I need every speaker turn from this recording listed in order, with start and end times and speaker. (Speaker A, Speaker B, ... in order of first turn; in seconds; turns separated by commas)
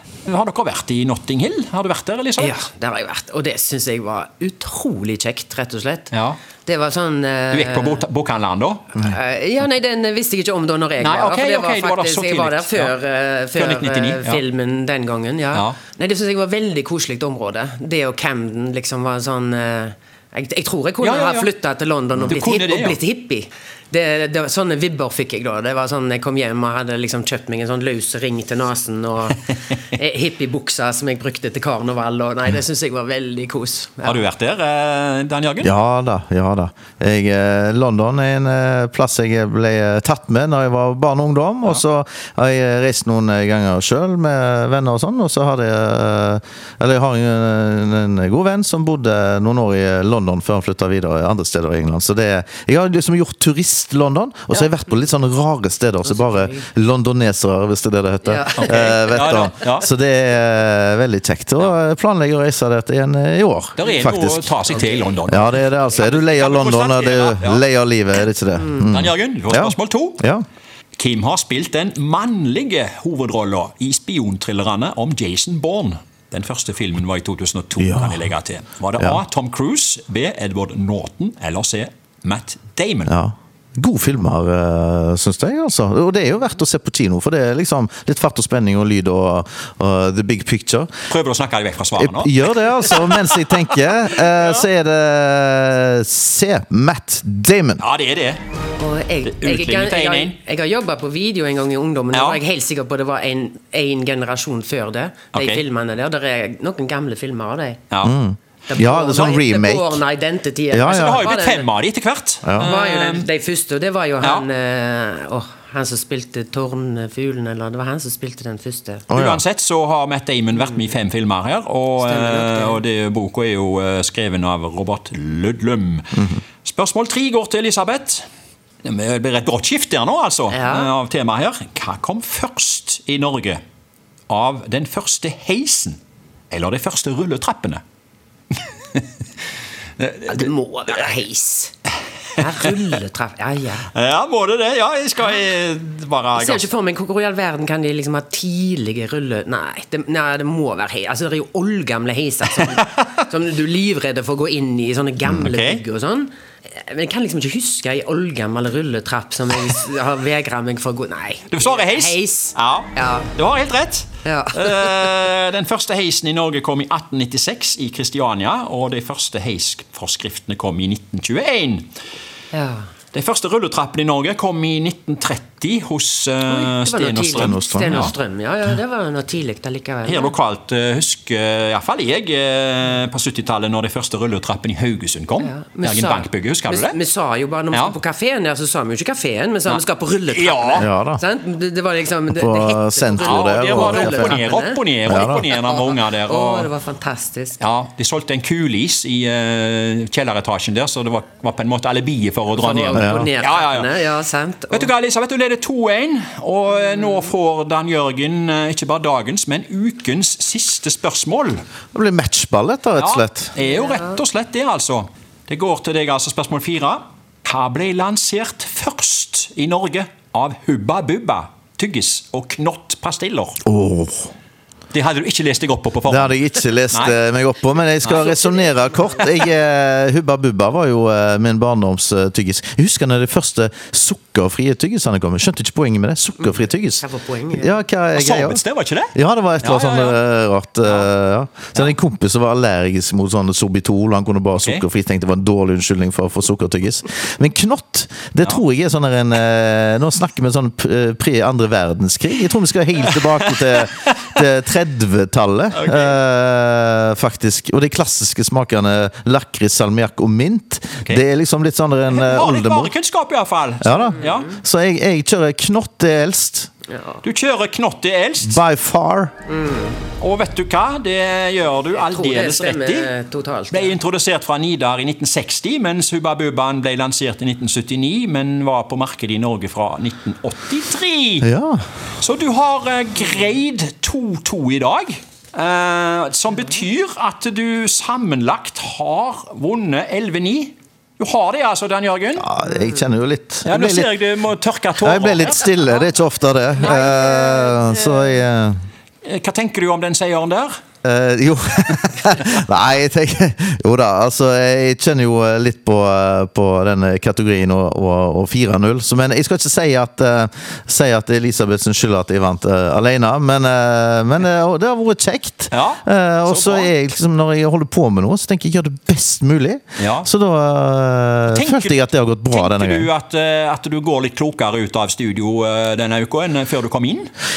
Speaker A: 0.2-2.6, Speaker B: 2.4-8.0, Speaker A: 6.1-6.4, Speaker A: 7.5-8.9, Speaker B: 8.9-34.2, Speaker A: 11.0-12.9, Speaker A: 13.6-14.4, Speaker A: 21.0-21.5, Speaker A: 22.2-23.0, Speaker A: 34.0-35.7, Speaker C: 35.6-64.5, Speaker B: 56.1-56.6, Speaker B: 58.2-58.8, Speaker A: 58.5-59.9, Speaker A: 63.8-67.6, Speaker B: 63.8-64.1, Speaker B: 64.7-65.2, Speaker C: 65.3-70.4, Speaker A: 68.8-70.2, Speaker A: 71.0-83.1, Speaker C: 77.8-78.2, Speaker C: 83.1-90.9, Speaker A: 91.1-94.7, Speaker C: 92.0-97.8, Speaker A: 97.8-98.4, Speaker B: 98.8-107.8, Speaker A: 99.2-100.4, Speaker A: 102.1-102.4, Speaker A: 105.3-105.6, Speaker C: 108.0-110.0, Speaker B: 108.7-111.7, Speaker C: 110.7-111.3, Speaker A: 110.9-113.3, Speaker C: 112.4-112.7, Speaker B: 112.6-119.1, Speaker C: 119.1-119.4, Speaker A: 119.1-128.2, Speaker B: 122.0-122.8, Speaker A: 128.8-133.6, Speaker B: 130.5-130.9, Speaker A: 134.3-136.0, Speaker A: 136.5-137.8, Speaker A: 140.0-140.5, Speaker B: 140.3-141.8, Speaker B: 142.4-143.9, Speaker A: 143.9-146.6, Speaker B: 146.3-163.3, Speaker A: 152.6-153.1, Speaker A: 155.3-155.8, Speaker A: 161.5-171.9, Speaker B: 164.2-165.2, Speaker B: 172.5-172.9, Speaker A: 173.1-178.1, Speaker B: 176.5-180.3, Speaker C: 177.3-178.1, Speaker A: 180.1-187.0, Speaker B: 185.4-197.6, Speaker A: 187.7-188.0, Speaker A: 189.7-190.9, Speaker C: 190.8-191.2, Speaker C: 192.3-194.4, Speaker A: 193.2-196.7, Speaker C: 195.1-195.4, Speaker A: 197.6-203.9, Speaker B: 202.6-204.9, Speaker C: 202.9-203.3, Speaker A: 204.7-211.6, Speaker C: 211.9-213.5, Speaker A: 213.0-223.6, Speaker C: 223.6-224.3, Speaker A: 224.9-226.4, Speaker C: 226.1-262.9, Speaker A: 228.0-228.4, Speaker B: 228.5-229.2, Speaker B: 237.0-237.8, Speaker A: 238.2-240.2, Speaker A: 240.8-241.1, Speaker A: 244.6-244.8, Speaker A: 253.1-254.2, Speaker A: 255.8-256.2, Speaker A: 262.1-264.6, Speaker C: 263.8-266.7, Speaker B: 266.9-267.2, Speaker A: 267.2-268.6, Speaker C: 268.4-269.3, Speaker B: 269.5-270.0, Speaker A: 270.2-273.1, Speaker B: 272.0-274.0, Speaker A: 273.7-281.5, Speaker C: 281.4-281.8, Speaker A: 282.2-292.5, Speaker C: 292.4-294.1, Speaker A: 293.7-295.8, Speaker C: 295.0-298.8, Speaker A: 296.8-298.4, Speaker A: 299.2-300.7, Speaker C: 301.0-323.1, Speaker A: 315.7-316.9, Speaker A: 320.0-320.3, Speaker A: 321.5-327.3